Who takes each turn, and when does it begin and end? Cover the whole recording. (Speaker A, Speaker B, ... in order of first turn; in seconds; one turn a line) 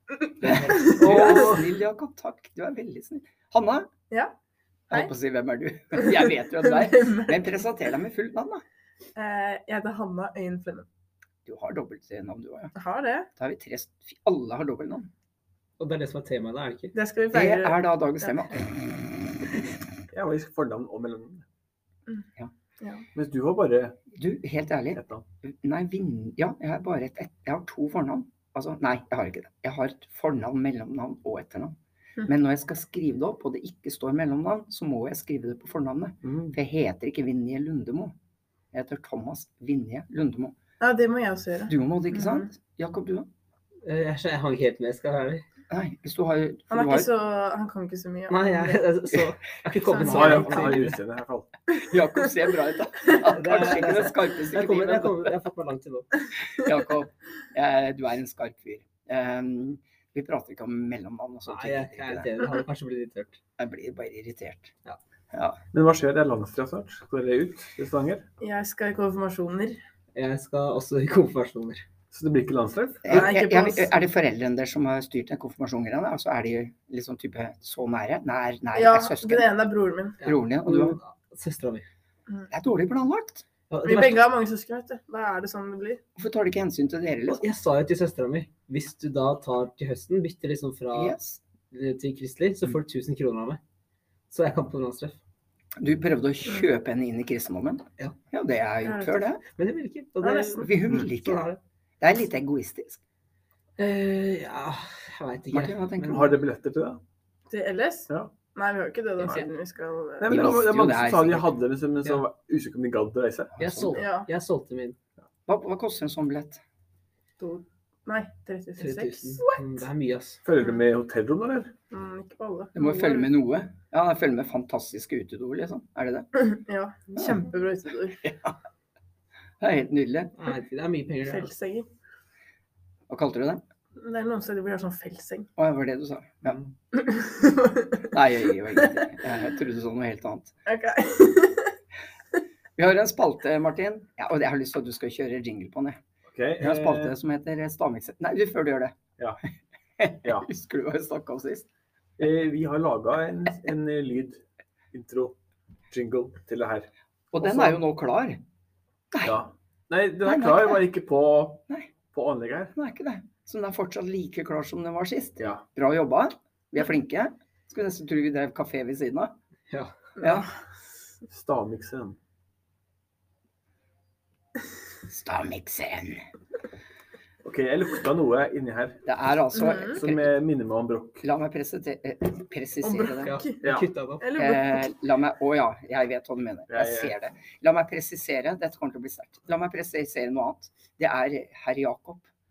Speaker A: 0.4-1.6
Speaker B: 0.4-3.9
Speaker B: 4.9-8.6
Speaker C: 5.9-7.5
Speaker C: 9.1-10.9
Speaker B: 11.4-12.7
Speaker C: 12.8-13.3
Speaker B: 13.3-15.1
Speaker A: 15.8-16.9
Speaker C: 16.9-18.3
Speaker B: 17.3-19.6
Speaker D: 20.1-21.4
Speaker C: 22.8-23.1
Speaker D: 23.1-24.0
Speaker B: 24.1-31.7
Speaker D: 24.9-25.2
Speaker B: 32.3-38.1
Speaker D: 36.2-36.6
Speaker B: 38.7-40.5
Speaker C: 40.8-42.5
Speaker B: 41.7-43.3
Speaker A: 43.8-45.4
Speaker B: 45.7-47.1
Speaker C: 46.7-48.8
Speaker A: 48.3-51.0
Speaker C: 49.9-50.8
Speaker D: 50.0-51.5
Speaker B: 51.7-55.3
Speaker A: 53.2-56.1
Speaker B: 56.5-62.3
Speaker A: 61.5-63.4
Speaker B: 63.6-64.7
Speaker B: 65.3-65.6
Speaker D: 65.7-68.2
Speaker C: 68.4-69.8
Speaker A: 70.1-71.8
Speaker D: 72.1-73.3
Speaker B: 73.0-79.5
Speaker C: 73.1-74.0
Speaker C: 78.7-80.2
Speaker A: 80.2-81.9
Speaker B: 80.2-81.0
Speaker B: 82.5-83.4
Speaker A: 83.7-84.2
Speaker C: 83.8-86.0
Speaker B: 86.2-87.5
Speaker A: 87.3-91.2
Speaker B: 90.9-91.4
Speaker A: 91.7-93.6
Speaker A: 94.3-95.2
Speaker B: 95.8-99.4
Speaker C: 98.8-99.3
Speaker A: 99.5-101.6
Speaker C: 100.2-100.7
Speaker B: 100.6-101.5
Speaker B: 102.0-103.0
Speaker A: 103.8-106.3
Speaker B: 105.5-106.3
Speaker D: 106.0-107.0
Speaker C: 107.5-110.5
Speaker A: 109.2-109.5
Speaker D: 110.2-113.6
Speaker B: 110.3-111.5
Speaker B: 113.6-113.9
Speaker A: 113.6-115.0
Speaker C: 113.9-114.3
Speaker B: 115.5-116.6
Speaker C: 117.4-119.7
Speaker A: 118.8-120.4
Speaker D: 120.4-121.7
Speaker C: 121.9-123.3
Speaker B: 122.8-126.3
Speaker C: 126.3-128.2
Speaker B: 128.2-128.5
Speaker B: 129.6-130.3
Speaker A: 130.3-131.5
Speaker C: 131.3-131.9
Speaker B: 133.1-133.6
Speaker C: 134.0-135.5
Speaker B: 135.6-136.6
Speaker C: 136.9-138.1
Speaker B: 138.1-140.5
Speaker C: 140.7-141.7
Speaker B: 142.8-146.0
Speaker D: 146.3-147.2
Speaker B: 146.6-148.9
Speaker B: 150.0-151.7
Speaker D: 152.2-155.3
Speaker D: 155.9-157.8
Speaker B: 157.3-158.4
Speaker B: 159.1-159.4
Speaker D: 159.2-162.7
Speaker B: 160.2-160.8
Speaker B: 162.7-169.3
Speaker D: 165.4-165.6
Speaker A: 169.7-169.9
Speaker B: 170.2-170.5
Speaker D: 171.3-172.2
Speaker B: 175.1-176.2
Speaker D: 177.4-179.0
Speaker B: 179.1-180.3
Speaker C: 179.5-180.0
Speaker D: 179.9-181.2
Speaker B: 181.2-183.4
Speaker C: 182.8-183.6
Speaker A: 183.2-184.3
Speaker C: 184.2-184.9
Speaker B: 184.3-192.2
Speaker D: 186.7-187.1